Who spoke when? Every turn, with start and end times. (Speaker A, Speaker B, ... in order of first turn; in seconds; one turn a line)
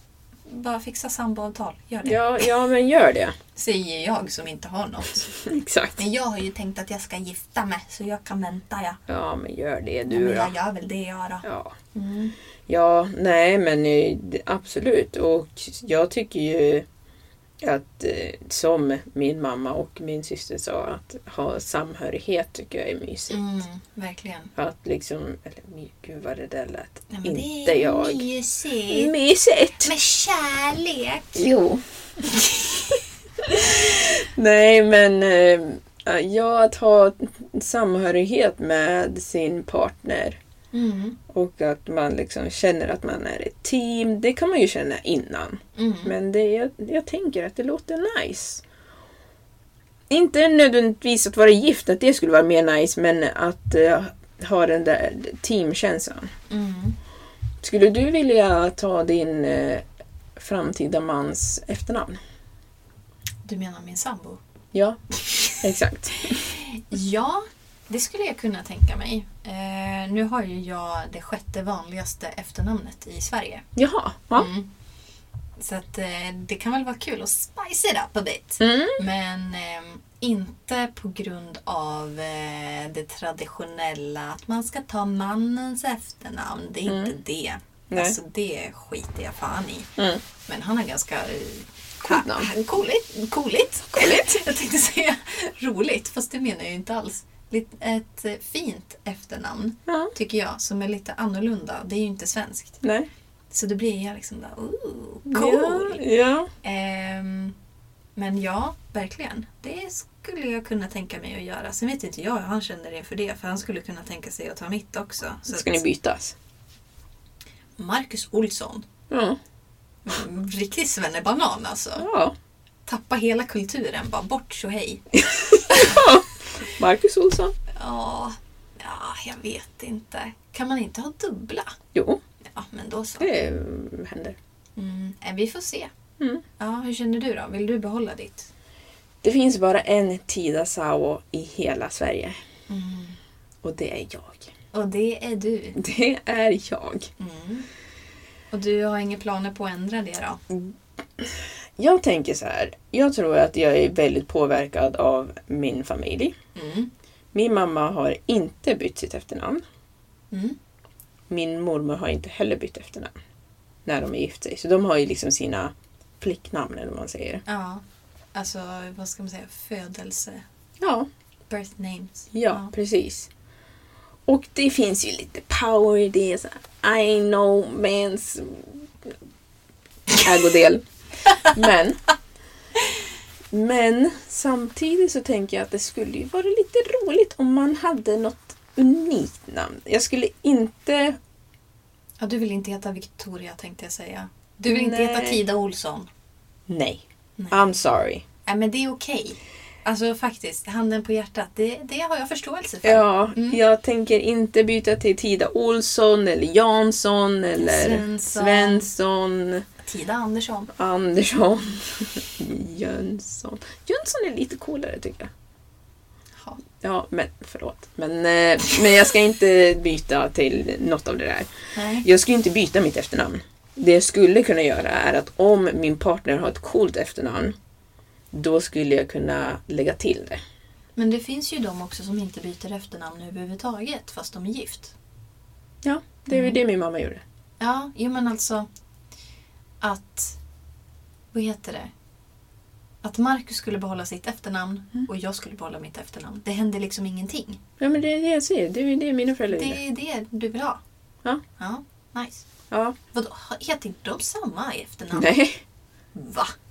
Speaker A: 0.5-2.5
Speaker B: 2.0-3.3
Speaker A: 3.5-5.3
Speaker B: 5.4-6.0
Speaker A: 6.0-9.0
Speaker B: 9.1-10.5
Speaker A: 10.1-12.3
Speaker B: 11.4-11.7
Speaker B: 12.7-16.9
Speaker B: 17.6-23.4
Speaker A: 23.3-24.5
Speaker B: 24.6-28.2
Speaker A: 27.1-29.1
Speaker B: 28.9-29.9
Speaker A: 29.8-31.4
Speaker B: 31.3-31.8
Speaker A: 32.3-32.8
Speaker B: 33.4-40.4
Speaker A: 40.7-41.2
Speaker B: 41.3-48.6
Speaker A: 45.8-46.1
Speaker B: 50.1-56.3
Speaker A: 56.5-57.0
Speaker B: 57.6-59.8
Speaker B: 60.4-62.2
Speaker A: 63.4-64.4
Speaker B: 64.7-66.5
Speaker A: 66.4-73.6
Speaker B: 73.8-74.5
Speaker A: 74.3-74.7
Speaker A: 75.6-89.9
Speaker B: 78.6-79.0
Speaker B: 86.9-87.1
Speaker B: 87.9-88.2
Speaker A: 90.5-102.8
Speaker B: 92.0-92.5
Speaker B: 94.0-94.4
Speaker B: 99.9-100.1
Speaker B: 102.8-103.1
Speaker A: 103.5-106.0
Speaker B: 105.3-106.5
Speaker A: 106.6-107.5
Speaker A: 108.2-115.8
Speaker B: 115.5-116.3
Speaker A: 117.8-118.8
Speaker B: 119.1-119.4
Speaker A: 120.0-122.0
Speaker B: 122.0-122.3
Speaker A: 122.8-125.0
Speaker B: 125.1-127.5
Speaker A: 125.7-126.0
Speaker A: 127.7-131.7
Speaker B: 131.9-132.2
Speaker A: 132.4-133.3
Speaker B: 133.2-134.4
Speaker A: 134.8-135.9
Speaker A: 136.6-138.5
Speaker B: 139.2-142.3
Speaker A: 142.7-143.2
Speaker B: 143.6-144.5
Speaker A: 144.7-145.8
Speaker B: 145.8-147.1
Speaker A: 147.2-147.7
Speaker A: 148.5-150.4
Speaker B: 150.5-156.3
Speaker A: 156.5-156.9
Speaker B: 157.3-159.6
Speaker A: 160.3-160.6
Speaker B: 161.3-163.1
Speaker B: 163.8-167.4
Speaker A: 167.4-167.8
Speaker A: 168.3-170.4
Speaker B: 170.8-171.1
Speaker A: 171.5-172.7
Speaker B: 172.3-173.3
Speaker B: 174.3-179.1
Speaker B: 180.2-182.0
Speaker B: 183.5-191.2
Speaker A: 192.2-196.1
Speaker B: 194.7-195.4
Speaker B: 196.7-198.2
Speaker A: 197.4-197.7
Speaker A: 198.4-203.6
Speaker B: 202.8-209.6
Speaker A: 207.6-208.8
Speaker A: 209.8-210.7
Speaker B: 210.8-215.3
Speaker B: 216.8-221.5
Speaker A: 221.7-222.1
Speaker B: 222.0-227.5
Speaker B: 228.3-230.4
Speaker A: 230.9-234.9
Speaker B: 235.8-237.2
Speaker A: 236.3-236.6
Speaker A: 237.6-238.7
Speaker A: 239.8-240.4
Speaker A: 241.3-241.9
Speaker A: 243.0-247.6
Speaker B: 247.8-249.8
Speaker A: 249.5-250.8
Speaker A: 251.6-252.4
Speaker B: 252.7-252.9
Speaker A: 253.1-255.3
Speaker B: 255.1-255.6
Speaker A: 256.1-256.5